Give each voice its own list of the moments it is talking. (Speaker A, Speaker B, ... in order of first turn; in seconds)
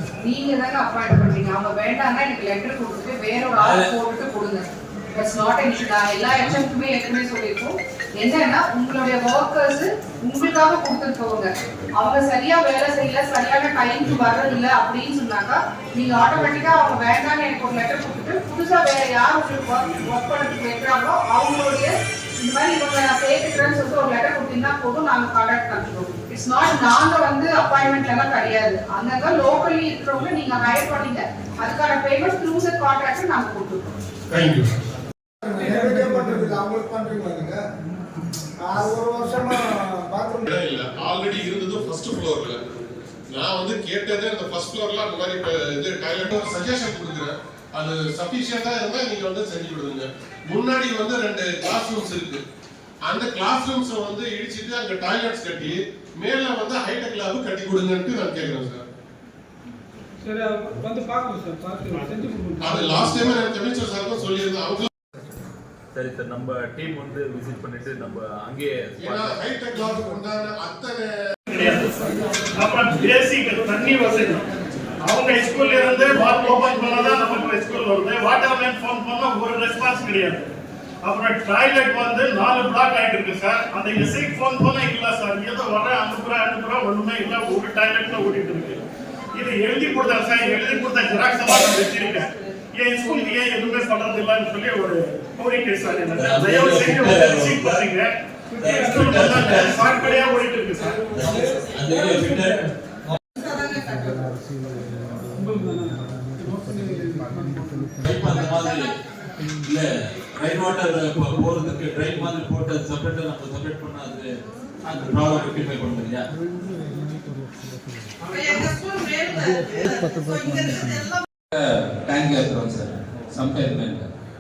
Speaker A: 0.2-34.0
Speaker B: 3.6-3.9, 121.5-124.1
Speaker C: 34.3-34.8, 40.5-42.6, 43.3-52.4, 53.0-58.8, 62.6-64.9, 69.0-71.1
Speaker D: 35.4-37.6, 38.6-40.5, 71.5-71.9, 72.6-74.4, 75.0-80.5, 81.0-98.1, 98.9-101.0
Speaker E: 35.6-36.1, 60.2-63.4, 98.6-99.5, 102.0-102.5, 105.3-107.9
Speaker F: 65.9-69.4, 96.1-97.9, 98.6-100.2, 101.1-102.7, 108.0-108.9, 109.6-114.3, 114.8-116.2